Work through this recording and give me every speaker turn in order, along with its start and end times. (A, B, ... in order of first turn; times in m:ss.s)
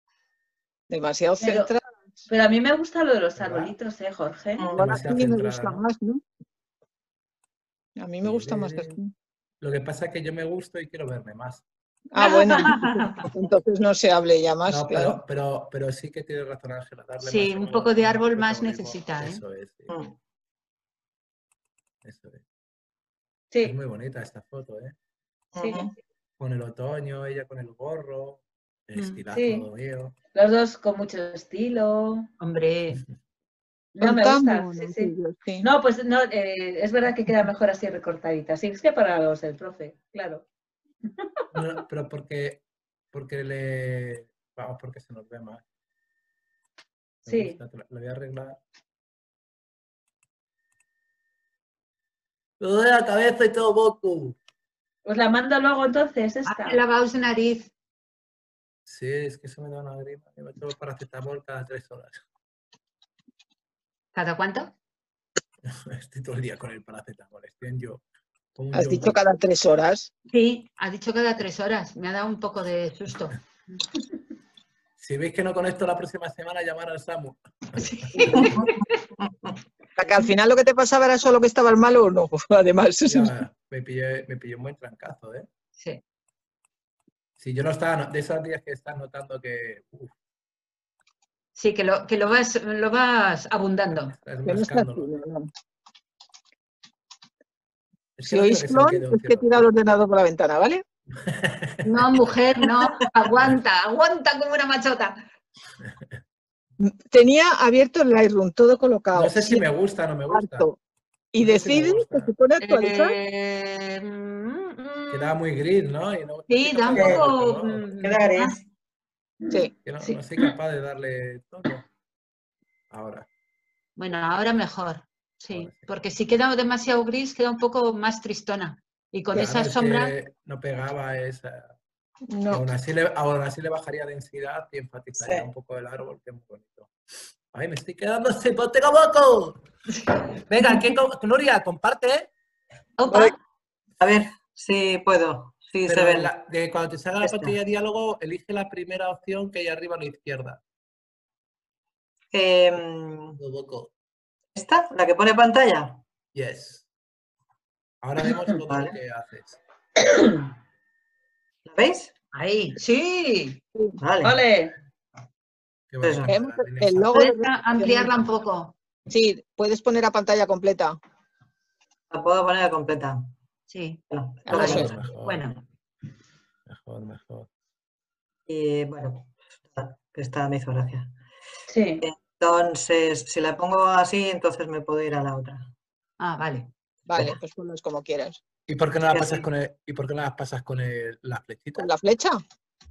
0:00.9-0:01.9 A
0:01.4-0:01.7 B
0:02.3-0:04.7 B
0:03.4-0:03.7 C
0:04.6-0:04.9 D
0:04.7-0:06.2 A
0:04.8-0:05.8 C
0:08.0-0:09.1 A
0:08.2-0:09.0 C
0:09.6-0:11.6 C
0:12.1-0:15.2 A
0:12.2-0:13.2 E
0:14.7-0:19.9 C
0:17.2-0:19.4 E
0:22.0-0:22.4 C
0:23.6-0:25.0 C
0:25.5-0:25.9 D
0:25.6-0:25.9 B
0:26.4-0:30.1 C
0:29.3-0:29.7 B
0:30.3-0:32.3 B
0:32.4-0:33.0 E
0:34.0-0:40.4 B
0:34.0-0:35.7 A
0:41.5-0:45.6 C
0:47.2-0:48.6 C
0:47.3-0:47.6 B
0:52.6-0:54.4 C
0:55.0-0:56.8 B
0:56.5-0:57.7 E
0:58.9-1:02.2 C
1:04.1-1:04.7 E
1:05.6-1:08.0 C
1:08.6-1:09.2 C
1:08.7-1:10.1 A
1:10.3-1:13.4 E
1:15.0-1:18.5 C
1:17.8-1:19.0 E
1:18.3-1:19.6 D
1:20.0-1:23.4 A
1:23.1-1:25.5 C
1:27.4-1:30.1 C
1:31.6-1:34.2 E
1:34.0-1:35.1 C
1:34.4-1:35.5 A
1:38.2-1:39.7 C
1:38.2-1:40.8 A
1:41.1-1:42.3 C
1:41.8-1:45.3 E
1:43.3-1:43.6 C
1:46.8-1:49.6 A
1:49.1-1:50.7 C
1:50.3-1:50.8 A
1:51.3-1:53.2 A
1:51.4-1:52.3 C
1:52.6-1:55.4 E
1:55.1-1:57.8 C
1:56.5-1:58.6 E
1:56.9-1:57.3 D
1:58.0-1:58.6 D
1:59.4-2:00.2 B
1:59.8-2:01.9 C
2:02.9-2:03.3 C
2:04.0-2:10.1 E
2:05.5-2:05.9 C
2:09.3-2:11.8 C
2:12.3-2:12.6 A
2:12.5-2:16.9 C
2:15.2-2:15.5 D
2:17.5-2:19.6 C
2:20.3-2:22.3 C
2:23.0-2:23.4 E
2:23.1-2:23.3 D
2:24.0-2:26.3 D
2:25.9-2:30.6 C
2:27.2-2:27.6 D
2:32.3-2:33.4 D
2:33.4-2:33.9 C
2:34.6-2:36.0 D
2:36.3-2:36.9 C
2:38.0-2:39.6 C
2:38.7-2:38.9 D
2:40.0-2:40.4 B
2:41.6-2:42.1 D
2:42.3-2:43.6 E
2:44.0-2:44.4 D
2:44.2-2:44.8 B
2:45.9-2:47.2 C
2:46.0-2:46.3 D
2:46.3-2:48.2 A
2:47.1-2:48.8 E
2:49.1-2:51.0 A
2:52.1-2:53.3 D
2:53.7-2:54.0 E
2:54.1-2:55.1 D
2:54.4-2:55.0 A
2:54.6-2:55.6 C
2:54.7-2:55.6 E
2:56.7-2:57.5 C
2:58.5-3:01.1 D
3:01.7-3:02.0 B
3:02.0-3:05.7 D
3:06.2-3:06.7 E
3:07.1-3:08.4 A
3:08.7-3:11.9 C
3:09.1-3:09.4 D
3:11.8-3:12.4 A